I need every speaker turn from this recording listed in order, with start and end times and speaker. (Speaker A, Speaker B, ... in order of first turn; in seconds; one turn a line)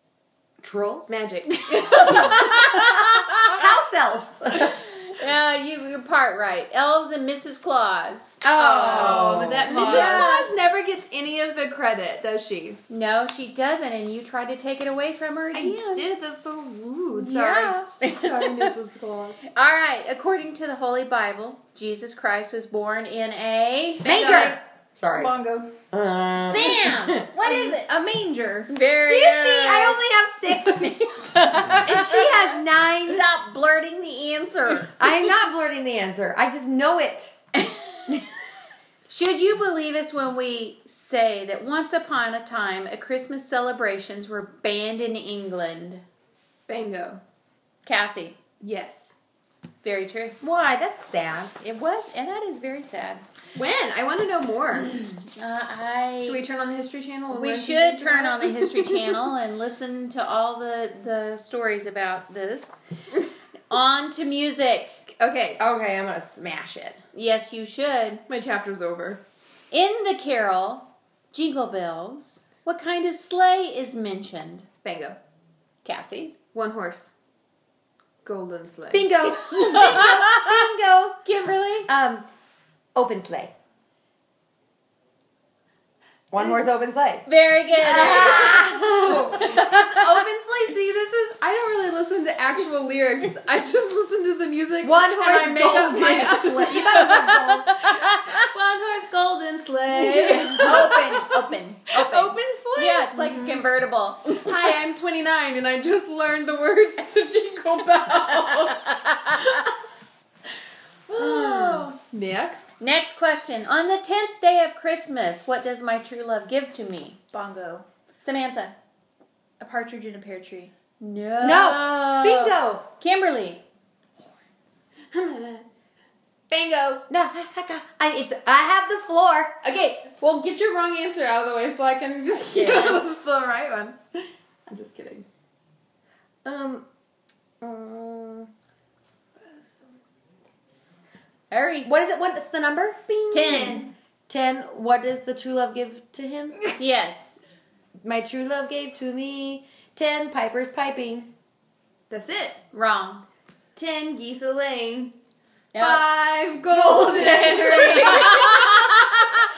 Speaker A: 0.6-1.1
Speaker B: 1.1-2.9
Speaker C: 1.6-3.4
Speaker A: 3.5-4.8
Speaker C: 5.1-8.9
Speaker A: 8.4-9.8
Speaker B: 8.6-12.8
Speaker D: 8.8-10.5
Speaker C: 9.5-10.6
Speaker C: 12.9-16.1
Speaker B: 15.5-19.4
Speaker C: 17.1-18.7
Speaker C: 19.5-24.4
Speaker B: 24.0-24.6
Speaker A: 24.1-25.3
Speaker D: 24.2-24.6
Speaker D: 25.1-25.7
Speaker A: 25.9-27.1
Speaker C: 26.4-27.9
Speaker D: 27.4-28.7
Speaker C: 28.7-30.0
Speaker A: 29.1-33.2
Speaker C: 31.3-35.2
Speaker A: 35.0-37.4
Speaker C: 39.1-46.0
Speaker B: 46.7-47.2
Speaker C: 47.9-48.4
Speaker B: 48.6-49.2
Speaker C: 49.8-50.4
Speaker A: 50.4-51.6
Speaker C: 51.6-53.2
Speaker B: 53.5-55.1
Speaker C: 54.8-56.4
Speaker B: 56.2-59.2
Speaker C: 57.3-62.8
Speaker C: 63.7-65.0
Speaker B: 65.2-65.6
Speaker A: 65.6-67.0
Speaker C: 67.1-68.2
Speaker B: 68.3-69.2
Speaker C: 69.7-74.7
Speaker B: 74.8-75.2
Speaker C: 75.8-76.4
Speaker B: 76.5-77.1
Speaker B: 78.2-79.1
Speaker A: 78.9-81.2
Speaker C: 79.4-80.6
Speaker C: 81.2-81.9
Speaker A: 81.9-82.2
Speaker A: 82.9-83.5
Speaker A: 86.3-89.5
Speaker C: 87.2-90.1
Speaker B: 87.9-97.5
Speaker A: 94.8-98.0
Speaker C: 96.9-98.4
Speaker B: 98.3-101.1
Speaker C: 100.0-102.1
Speaker A: 100.4-102.3
Speaker B: 101.9-103.5
Speaker C: 102.7-104.5
Speaker B: 104.3-109.7
Speaker C: 108.7-109.4
Speaker B: 111.1-112.8
Speaker C: 111.2-111.9
Speaker C: 112.8-117.2
Speaker D: 117.3-117.8
Speaker C: 118.2-118.7
Speaker D: 119.6-120.7
Speaker C: 121.0-123.6
Speaker A: 121.4-122.8
Speaker B: 125.1-125.7
Speaker B: 126.5-127.1
Speaker A: 127.1-129.5
Speaker B: 129.6-135.2
Speaker A: 132.6-132.9
Speaker B: 136.4-136.8
Speaker B: 137.6-138.5
Speaker B: 139.4-139.8
Speaker C: 141.5-141.9
Speaker A: 141.8-146.6
Speaker C: 143.3-143.9
Speaker B: 143.4-143.7
Speaker C: 146.8-147.4
Speaker A: 148.0-151.3
Speaker B: 152.1-152.6
Speaker C: 152.7-153.2
Speaker B: 153.7-155.1
Speaker C: 155.7-156.1
Speaker B: 155.8-159.1
Speaker A: 156.7-158.6
Speaker C: 157.7-159.4